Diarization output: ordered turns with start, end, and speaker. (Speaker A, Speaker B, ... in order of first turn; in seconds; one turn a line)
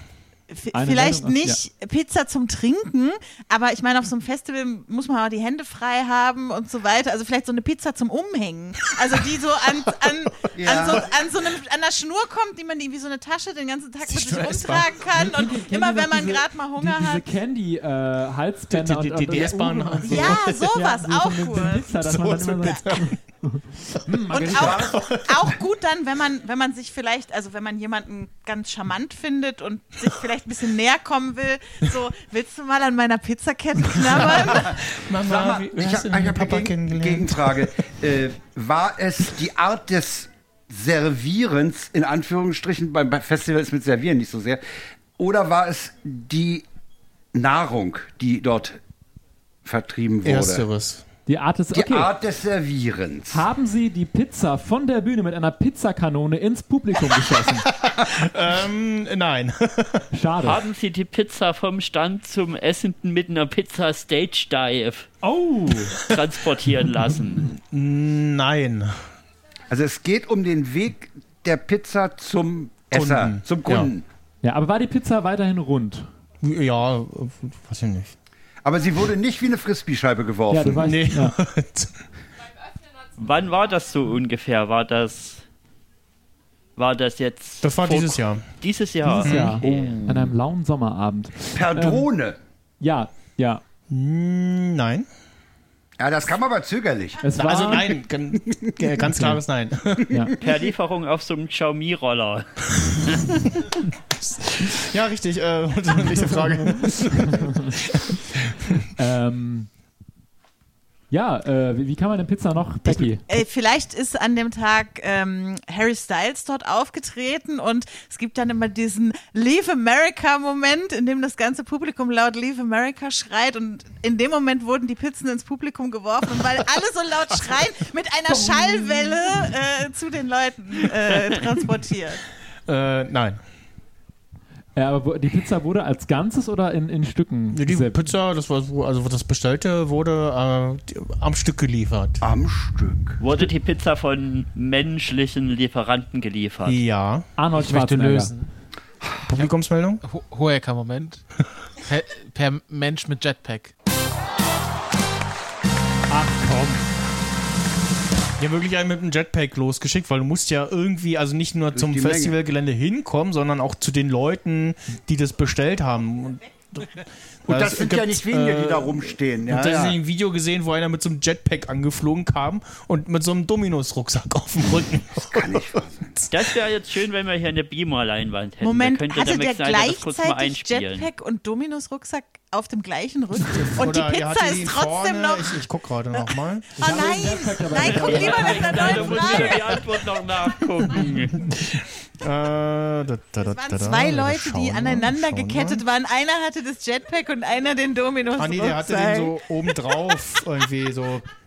Speaker A: 0.5-17.3
Speaker B: 0.7-1.6
Speaker C: 10.5-11.1
Speaker D: 14.0-15.1
Speaker B: 15.1-24.9
Speaker D: 18.7-20.8
Speaker A: 20.1-21.9
Speaker D: 21.9-23.2
Speaker D: 23.9-25.6
Speaker A: 24.3-34.7
Speaker C: 24.4-24.9
Speaker D: 34.0-37.7
Speaker C: 34.6-44.6
Speaker C: 45.2-46.6
Speaker C: 47.3-48.8
Speaker C: 49.6-50.6
Speaker D: 50.2-51.0
Speaker B: 51.3-52.1
Speaker C: 51.7-53.4
Speaker B: 53.3-57.7
Speaker D: 58.1-60.1
Speaker B: 60.1-60.6
Speaker E: 60.4-65.1
Speaker B: 65.2-66.0
Speaker E: 66.0-67.5
Speaker D: 67.4-69.1
Speaker C: 69.7-74.0
Speaker D: 72.9-73.9
Speaker B: 74.4-76.1
Speaker D: 76.4-78.1
Speaker C: 78.6-80.9
Speaker B: 80.5-81.3
Speaker D: 80.8-82.0
Speaker E: 83.2-85.4
Speaker E: 86.8-90.3
Speaker D: 87.6-88.4
Speaker B: 89.1-92.1
Speaker D: 89.1-89.6
Speaker C: 91.5-92.4
Speaker B: 92.8-93.6
Speaker D: 93.9-95.1
Speaker C: 96.0-97.2
Speaker B: 97.2-98.0
Speaker D: 97.4-100.2
Speaker B: 99.1-99.4
Speaker C: 100.2-100.6
Speaker E: 100.4-103.5
Speaker D: 104.2-108.7
Speaker B: 106.1-107.8
Speaker B: 109.0-109.7
Speaker B: 111.1-113.2
Speaker A: 113.2-132.2
Speaker D: 132.7-133.4
Speaker B: 134.8-138.0
Speaker D: 137.5-142.2
Speaker C: 142.2-143.2
Speaker E: 143.2-146.8
Speaker D: 146.7-147.3
Speaker B: 147.4-148.3
Speaker F: 147.5-148.5
Speaker D: 149.3-150.0
Speaker F: 150.0-151.2
Speaker F: 151.8-153.7
Speaker B: 156.1-156.8
Speaker D: 158.4-176.3
Speaker C: 161.7-162.3
Speaker C: 167.5-170.0
Speaker C: 175.3-176.0
Speaker E: 176.3-181.1
Speaker A: 178.6-185.6
Speaker D: 183.5-187.0
Speaker A: 186.2-189.7
Speaker B: 186.8-189.8
Speaker E: 187.8-191.4
Speaker D: 190.8-195.8
Speaker A: 193.4-199.9
Speaker D: 198.3-201.2